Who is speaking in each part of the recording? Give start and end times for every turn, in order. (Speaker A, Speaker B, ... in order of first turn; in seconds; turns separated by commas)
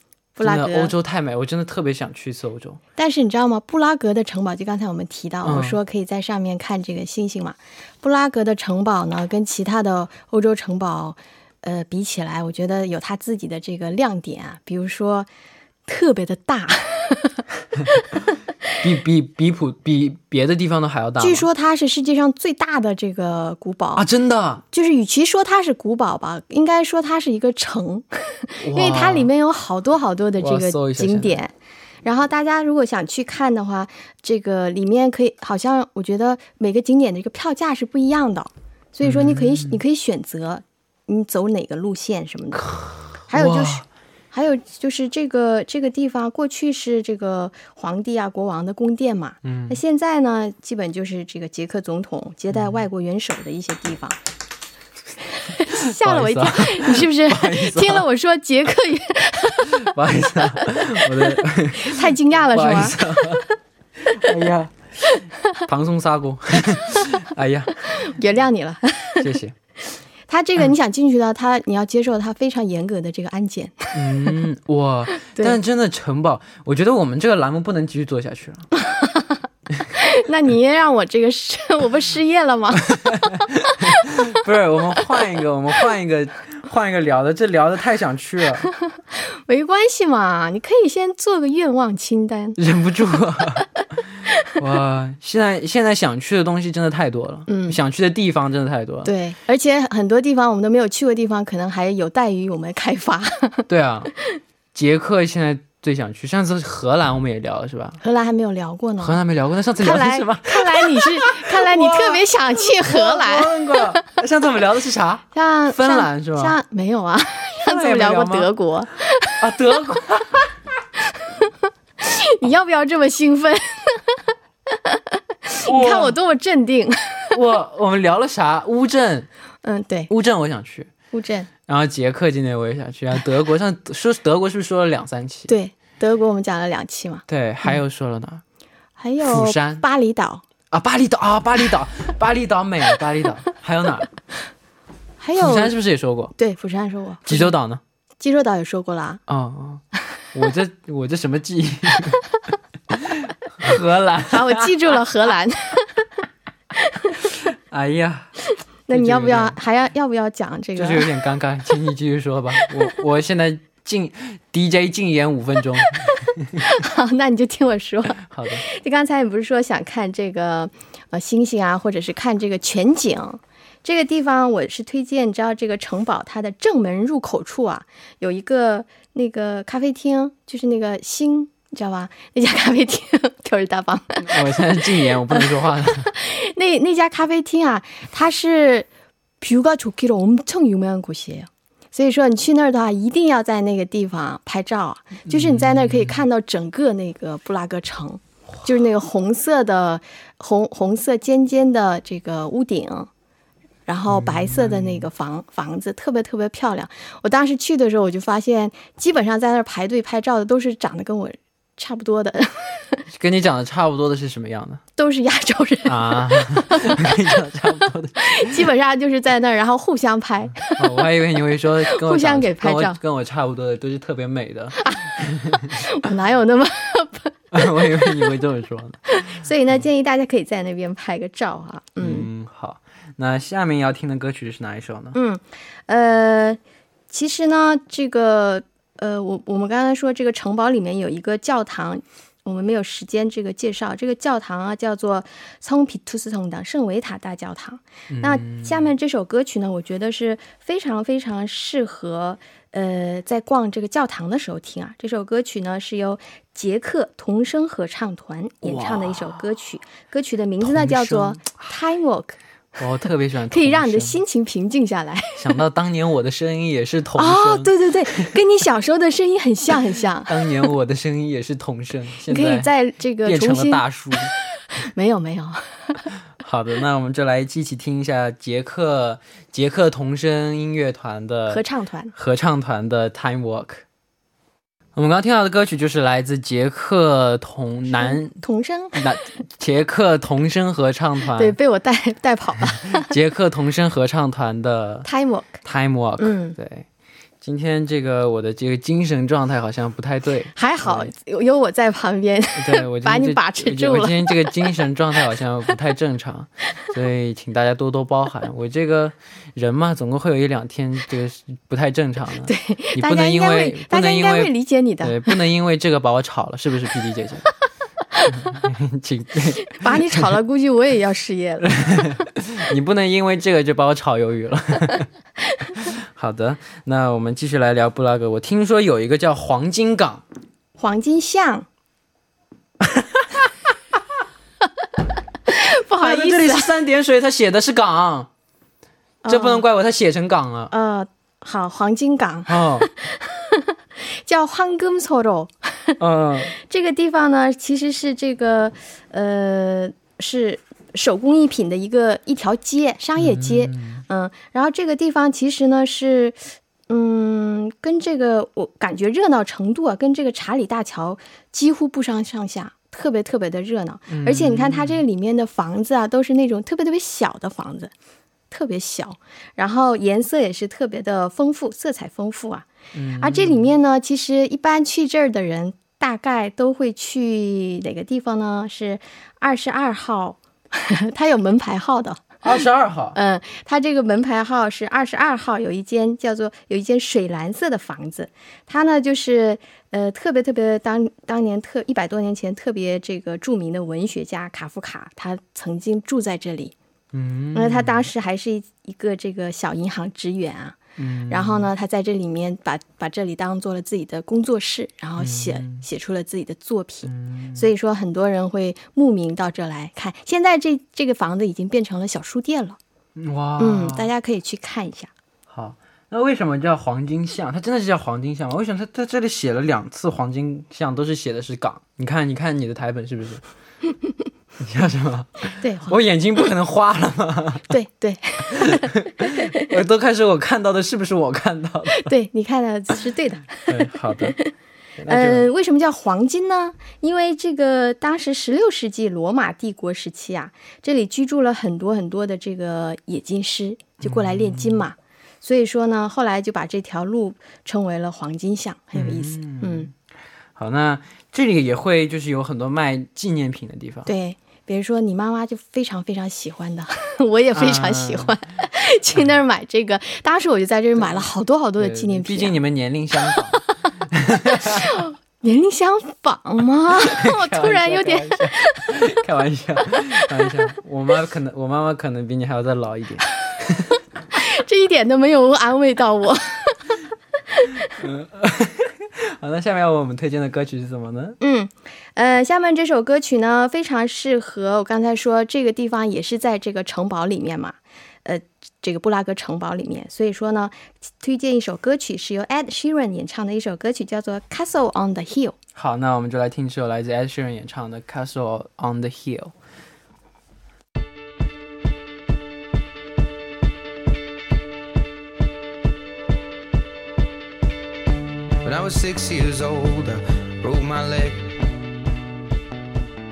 Speaker A: 0.3-0.9, Speaker B: 0.4-2.8, Speaker A: 3.0-15.3, Speaker B: 5.4-5.8, Speaker A: 15.8-17.4, Speaker B: 18.8-21.5, Speaker A: 21.2-24.0, Speaker B: 23.9-24.6, Speaker A: 24.7-31.5, Speaker B: 28.6-29.3, Speaker B: 30.4-31.4, Speaker A: 32.0-42.7, Speaker B: 39.0-39.8, Speaker B: 42.6-43.8, Speaker A: 43.3-54.2, Speaker B: 49.4-49.8, Speaker B: 52.5-52.8, Speaker A: 55.3-59.9, Speaker B: 55.9-58.0, Speaker B: 59.8-63.4, Speaker A: 60.6-63.5, Speaker B: 64.0-67.8, Speaker A: 67.8-69.3, Speaker B: 69.2-69.5, Speaker A: 70.3-74.1, Speaker B: 73.9-78.7, Speaker A: 75.2-75.6, Speaker A: 78.8-79.4, Speaker A: 79.9-84.0, Speaker B: 83.8-88.7, Speaker A: 89.1-92.6, Speaker B: 92.6-93.7, Speaker B: 94.5-99.1, Speaker A: 97.5-97.8, Speaker A: 99.0-103.7, Speaker B: 103.7-104.1, Speaker B: 104.7-108.0, Speaker A: 108.0-109.2, Speaker B: 109.0-116.6, Speaker A: 109.8-114.1, Speaker A: 115.3-119.4, Speaker B: 117.6-118.5, Speaker B: 119.4-120.4, Speaker A: 121.3-127.4, Speaker B: 125.7-126.2, Speaker B: 127.3-129.3, Speaker A: 129.6-130.1, Speaker B: 130.1-130.9, Speaker A: 131.1-131.5, Speaker B: 131.7-135.5, Speaker A: 135.5-137.2, Speaker B: 137.3-138.4, Speaker A: 139.0-140.4, Speaker B: 139.2-139.8, Speaker B: 140.7-144.1, Speaker A: 145.2-145.7, Speaker B: 145.4-146.3, Speaker A: 146.3-147.5, Speaker B: 147.2-147.8, Speaker A: 148.2-149.2, Speaker B: 149.3-152.2, Speaker B: 152.9-154.7, Speaker A: 154.3-156.1, Speaker A: 156.8-157.2, Speaker B: 157.5-158.3, Speaker A: 158.9-161.1, Speaker B: 158.9-159.6, Speaker B: 160.8-166.6, Speaker A: 166.1-188.9, Speaker B: 168.2-168.6, Speaker B: 184.2-186.1, Speaker A: 189.4-203.1, Speaker B: 195.3-196.2, Speaker A: 203.9-213.0, Speaker B: 204.1-205.1, Speaker B: 213.1-214.8, Speaker A: 214.9-217.1, Speaker B: 215.8-218.6, Speaker A: 218.2-220.8, Speaker B: 220.7-225.7, Speaker A: 221.9-223.0, Speaker A: 224.8-228.3, Speaker B: 227.5-229.0, Speaker A: 229.1-232.3, Speaker B: 232.0-235.2, Speaker A: 235.1-262.4, Speaker B: 248.1-248.9, Speaker B: 258.6-259.4, Speaker B: 260.6-261.5, Speaker B: 262.8-264.2, Speaker A: 263.5-265.6, Speaker B: 265.4-268.3, Speaker A: 267.2-270.5, Speaker B: 270.2-272.7, Speaker A: 272.3-276.0, Speaker B: 273.2-274.3, Speaker B: 276.4-281.6, Speaker A: 281.5-282.1, Speaker B: 282.1-283.8, Speaker B: 284.9-288.4, Speaker A: 287.9-289.0, Speaker B: 288.9-291.6, Speaker A: 291.4-293.1, Speaker B: 293.0-295.1, Speaker A: 295.0-295.6, Speaker B: 295.6-296.9, Speaker A: 296.2-296.6, Speaker B: 297.4-301.1, Speaker A: 300.6-304.6, Speaker B: 302.6-317.4, Speaker A: 312.4-315.3, Speaker B: 318.3-320.2, Speaker A: 319.7-322.2, Speaker B: 321.7-325.1, Speaker B: 325.7-330.2, Speaker A: 330.8-331.7, Speaker B: 332.8-333.4, Speaker A: 335.5-336.7, Speaker B: 336.0-338.3, Speaker A: 339.2-339.6, Speaker B: 339.3-340.7, Speaker A: 340.7-345.9, Speaker B: 342.5-342.9, Speaker B: 346.0-346.5, Speaker A: 346.5-367.9, Speaker B: 353.2-354.0, Speaker B: 364.1-365.0, Speaker A: 368.5-372.7, Speaker B: 372.9-373.7, Speaker A: 373.2-382.4, Speaker B: 382.4-383.2, Speaker A: 383.1-396.7, Speaker B: 397.1-398.1, Speaker A: 397.5-412.8, Speaker B: 401.0-401.7, Speaker B: 405.2-405.8, Speaker B: 407.0-407.7, Speaker B: 413.1-414.1, Speaker A: 413.6-415.1, Speaker B: 415.5-423.4, Speaker B: 424.6-427.7, Speaker A: 425.6-426.0, Speaker A: 427.7-429.6, Speaker B: 428.8-432.1, Speaker A: 431.9-434.5, Speaker B: 433.7-434.4, Speaker B: 435.0-435.5, Speaker A: 435.1-449.9, Speaker B: 444.0-444.8, Speaker B: 448.9-449.9, Speaker B: 450.6-454.1, Speaker A: 454.1-462.6, Speaker B: 457.5-458.4, Speaker B: 461.0-461.2, Speaker B: 461.8-464.9, Speaker A: 463.2-463.8, Speaker A: 464.5-469.1, Speaker B: 467.1-473.9, Speaker A: 470.2-470.5, Speaker A: 474.3-476.9, Speaker A: 477.5-477.8, Speaker B: 478.0-481.4, Speaker A: 481.4-495.6, Speaker B: 495.7-499.5, Speaker C: 508.6-511.4